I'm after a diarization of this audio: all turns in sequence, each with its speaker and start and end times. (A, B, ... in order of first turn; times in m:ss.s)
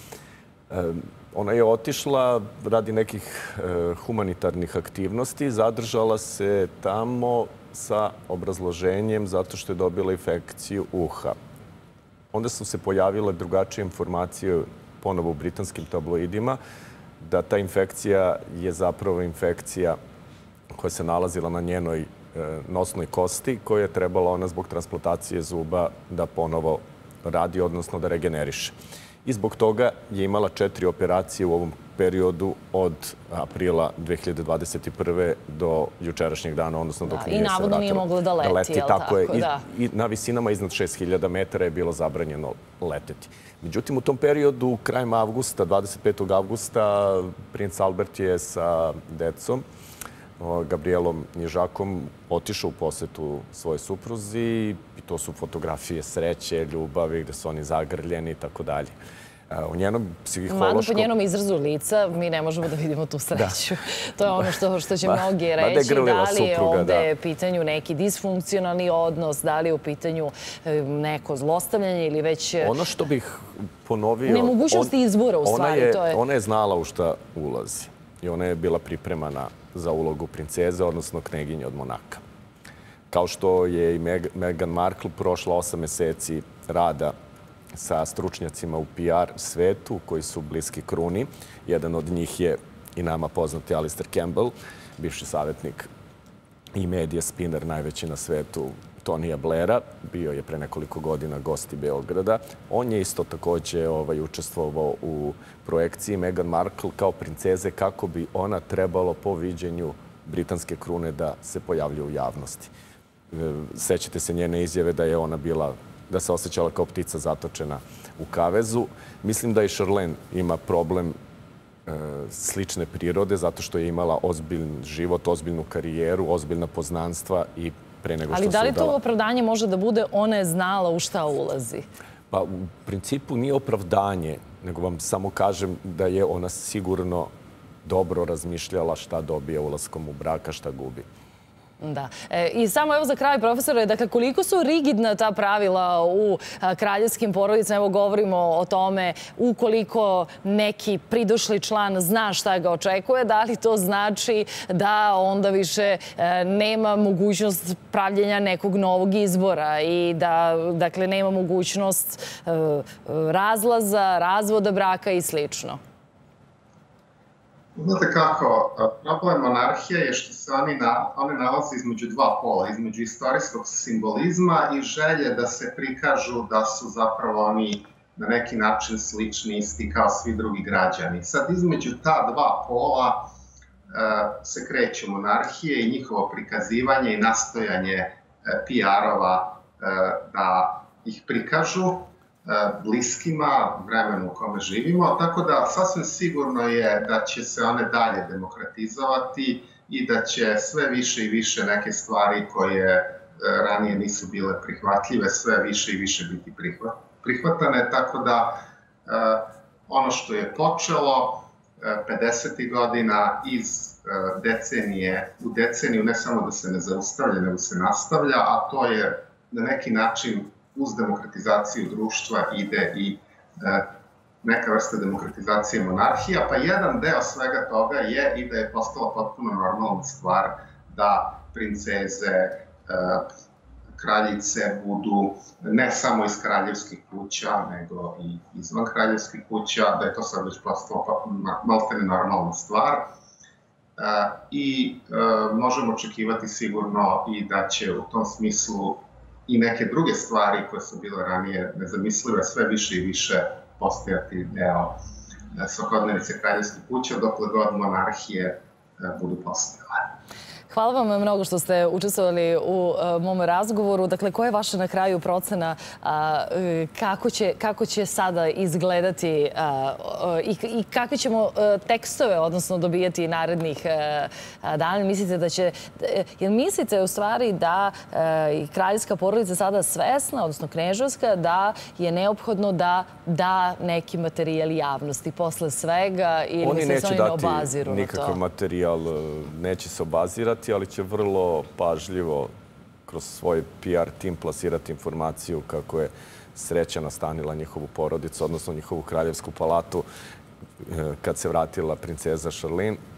0:00.7-0:11.4 A
0:12.3-0:16.6 A
0:17.2-0:20.0 A
0:20.7-0:49.6 A
0:37.1-0:39.6 B
0:50.4-0:58.9 A
0:59.5-1:01.1 A
1:00.5-1:12.8 B
1:05.0-1:07.1 A
1:12.6-1:22.2 A
1:14.2-1:16.2 B
1:23.1-1:27.1 A
1:27.7-1:35.9 A
1:36.8-1:52.7 A
1:53.3-2:01.1 A
2:01.8-2:09.0 A
2:08.3-2:11.8 B
2:12.3-2:17.3 A
2:17.8-2:21.0 A
2:21.8-2:45.8 B
2:47.7-3:03.3 C
3:03.9-3:43.9 C
3:44.4-3:53.3 C
3:54.0-4:03.1 C
4:04.0-4:15.0 C
4:15.5-4:20.0 C
4:20.7-4:48.4 B
4:46.6-4:52.5 A
4:53.0-5:00.0 A
5:00.8-5:03.0 A